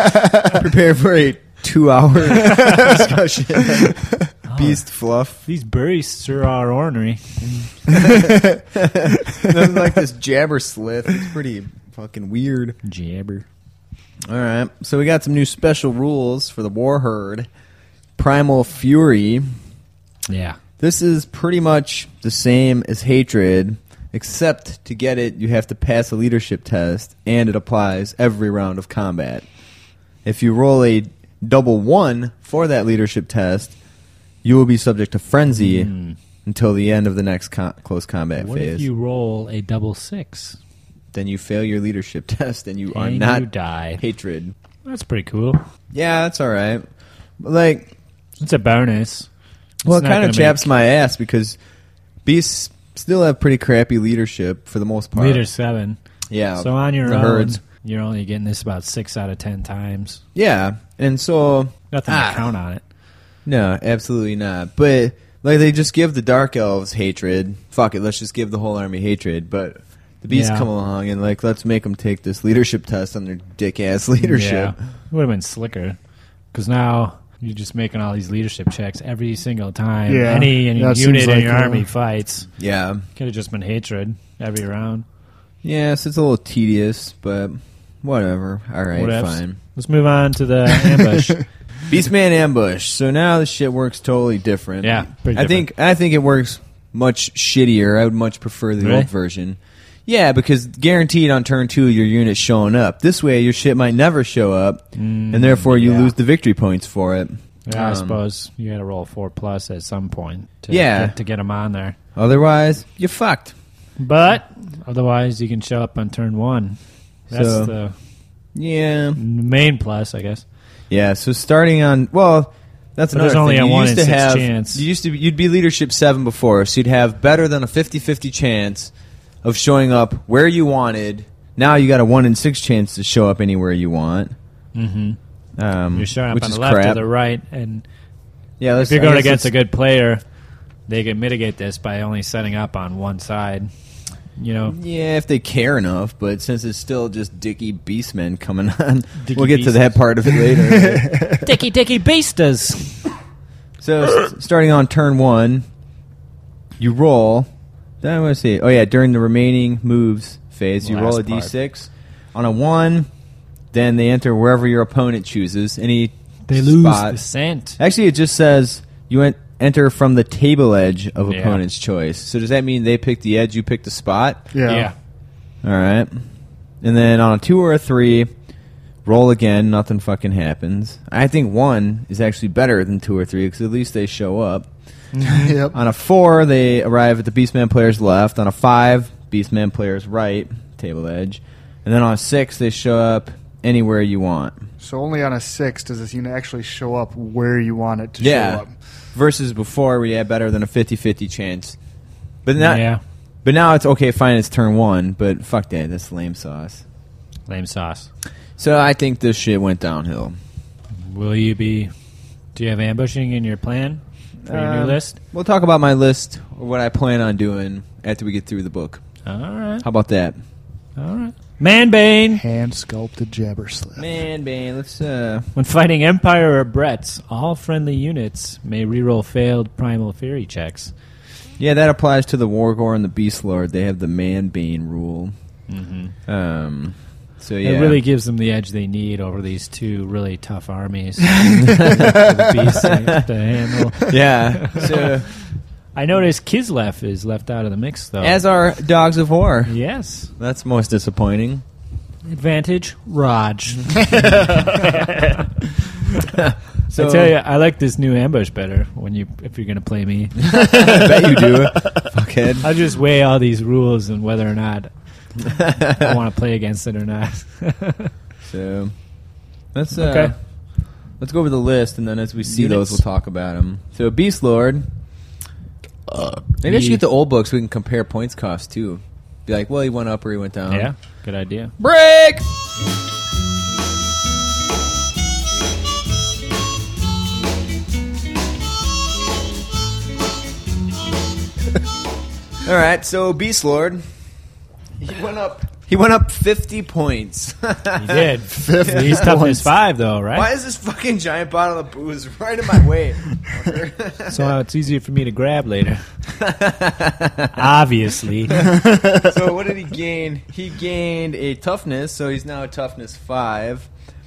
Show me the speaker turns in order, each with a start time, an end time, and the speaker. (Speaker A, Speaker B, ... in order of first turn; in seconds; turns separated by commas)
Speaker A: 0.4-5.4, Speaker B: 4.5-4.8, Speaker B: 5.4-7.5, Speaker A: 7.8-12.8, Speaker B: 12.8-13.4, Speaker A: 14.2-17.5, Speaker A: 18.2-19.5, Speaker B: 20.3-20.6, Speaker A: 20.8-29.4, Speaker A: 30.2-33.7, Speaker A: 34.4-35.9, Speaker B: 35.5-36.2, Speaker A: 36.4-38.9, Speaker B: 38.4-40.6, Speaker A: 41.1-44.5, Speaker B: 42.9-44.0, Speaker B: 44.8-45.6, Speaker A: 45.9-46.9, Speaker A: 47.4-47.9, Speaker B: 48.4-49.3, Speaker A: 49.8-51.6, Speaker B: 49.9-50.7, Speaker A: 52.2-55.4, Speaker B: 55.1-56.0, Speaker A: 56.3-57.6, Speaker B: 56.6-60.2, Speaker A: 60.3-62.5, Speaker B: 61.9-62.8, Speaker A: 63.4-74.7, Speaker B: 70.3-70.7, Speaker B: 74.2-76.0, Speaker B: 76.5-82.5, Speaker C: 80.1-81.8, Speaker A: 82.6-83.0, Speaker B: 83.2-85.0, Speaker A: 85.6-89.6, Speaker B: 88.9-91.5, Speaker A: 91.9-108.2, Speaker B: 94.8-95.7, Speaker B: 98.8-99.1, Speaker B: 104.9-106.1, Speaker B: 107.7-112.0, Speaker A: 110.7-111.1, Speaker A: 112.2-113.5, Speaker B: 114.0-117.9, Speaker A: 117.3-117.7, Speaker A: 118.5-119.2, Speaker B: 119.2-120.4, Speaker A: 120.9-128.9, Speaker B: 123.1-124.8, Speaker A: 129.4-134.3, Speaker B: 134.7-135.2, Speaker A: 135.6-137.0, Speaker B: 135.9-137.8, Speaker A: 138.6-139.5, Speaker B: 138.8-140.2, Speaker B: 140.9-143.7, Speaker B: 144.3-144.8, Speaker A: 144.7-151.3, Speaker B: 149.2-150.0, Speaker B: 151.4-153.1, Speaker A: 153.8-155.6, Speaker A: 156.8-157.5, Speaker A: 158.0-163.1, Speaker B: 160.8-161.5, Speaker A: 163.7-167.2, Speaker B: 166.5-167.8, Speaker A: 167.8-174.5, Speaker B: 171.3-171.6, Speaker C: 174.5-174.9, Speaker B: 174.6-174.9, Speaker A: 175.6-176.1, Speaker A: 176.8-178.3, Speaker A: 179.0-184.7, Speaker B: 185.1-185.5, Speaker C: 185.2-185.7, Speaker A: 185.7-194.6, Speaker C: 194.8-198.7, Speaker A: 198.2-201.8, Speaker A: 202.4-202.9, Speaker B: 202.6-203.0, Speaker A: 203.4-206.8, Speaker B: 207.5-208.1, Speaker A: 208.6-210.4, Speaker B: 211.0-211.9, Speaker B: 212.5-215.2, Speaker A: 214.4-219.0, Speaker B: 219.2-219.8, Speaker A: 219.8-220.4, Speaker B: 221.0-222.4, Speaker C: 222.3-224.1, Speaker A: 223.9-225.5, Speaker B: 225.5-230.9, Speaker A: 231.6-235.3, Speaker B: 235.7-236.2, Speaker A: 236.2-238.0, Speaker B: 237.6-245.1, Speaker A: 241.5-243.3, Speaker A: 244.0-245.3, Speaker B: 245.9-248.4, Speaker A: 248.2-249.7, Speaker B: 249.7-250.3, Speaker A: 250.4-251.6, Speaker B: 252.2-255.6, Speaker A: 256.2-257.3, Speaker B: 256.9-260.9, Speaker A: 260.4-262.7, Speaker B: 262.6-264.9, Speaker A: 265.4-266.1, Speaker B: 265.4-268.1, Speaker A: 268.5-268.9, Speaker A: 269.7-270.3, Speaker B: 269.9-270.3, Speaker A: 271.2-274.9, Speaker B: 272.5-273.0, Speaker A: 276.1-280.9, Speaker B: 276.7-277.0, Speaker B: 280.7-281.7, Speaker A: 281.8-282.4, Speaker A: 292.6-294.0, Speaker A: 295.0-298.3, Speaker B: 297.9-300.5, Speaker C: 298.5-299.7, Speaker A: 298.9-299.3, Speaker A: 300.3-304.5, Speaker B: 304.3-306.0, Speaker A: 306.4-307.7, Speaker B: 307.5-308.6, Speaker A: 308.5-313.9, Speaker C: 308.7-309.2